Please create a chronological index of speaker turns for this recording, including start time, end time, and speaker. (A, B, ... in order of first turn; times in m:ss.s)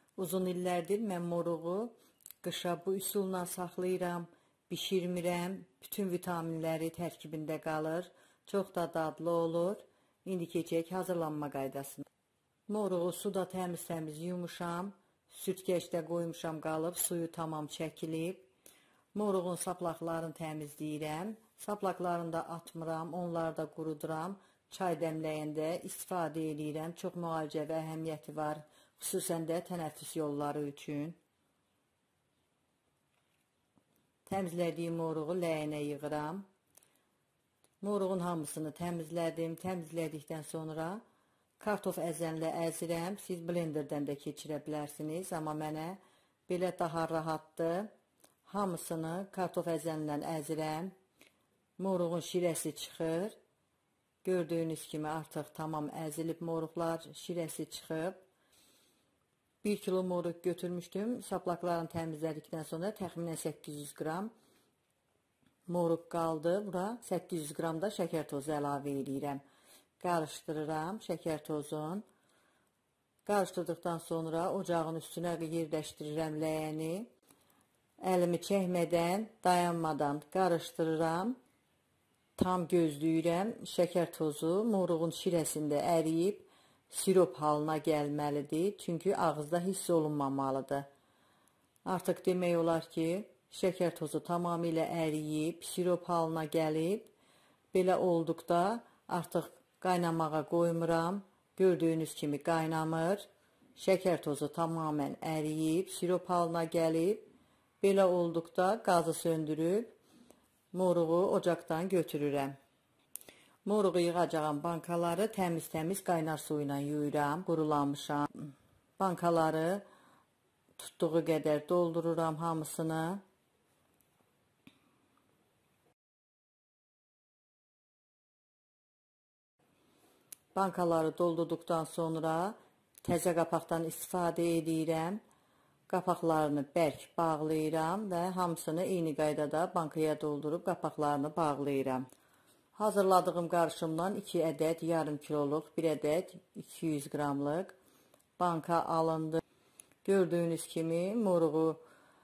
0:00.2-0:12.0 A
0:12.7-0:18.5 A
0:19.1-0:31.2 A
0:34.2-0:36.5 A
0:37.8-0:41.0 A
0:41.6-0:47.9 A
0:48.4-0:50.9 A
0:51.8-0:53.4 A
0:54.2-0:58.2 A
0:59.6-1:04.3 A
1:05.7-1:09.4 A
1:10.0-1:12.0 A
1:13.2-1:17.1 A
1:18.0-1:21.4 A
1:22.4-1:30.9 A
1:31.8-1:37.1 A
1:37.7-1:47.3 A
1:47.8-1:49.9 A
1:50.7-1:52.6 A
1:53.6-1:59.8 A
2:00.8-2:03.2 A
2:10.5-2:15.2 A
2:15.9-2:22.1 A
2:22.8-2:27.8 A
2:28.4-2:29.4 A
2:30.0-2:31.8 A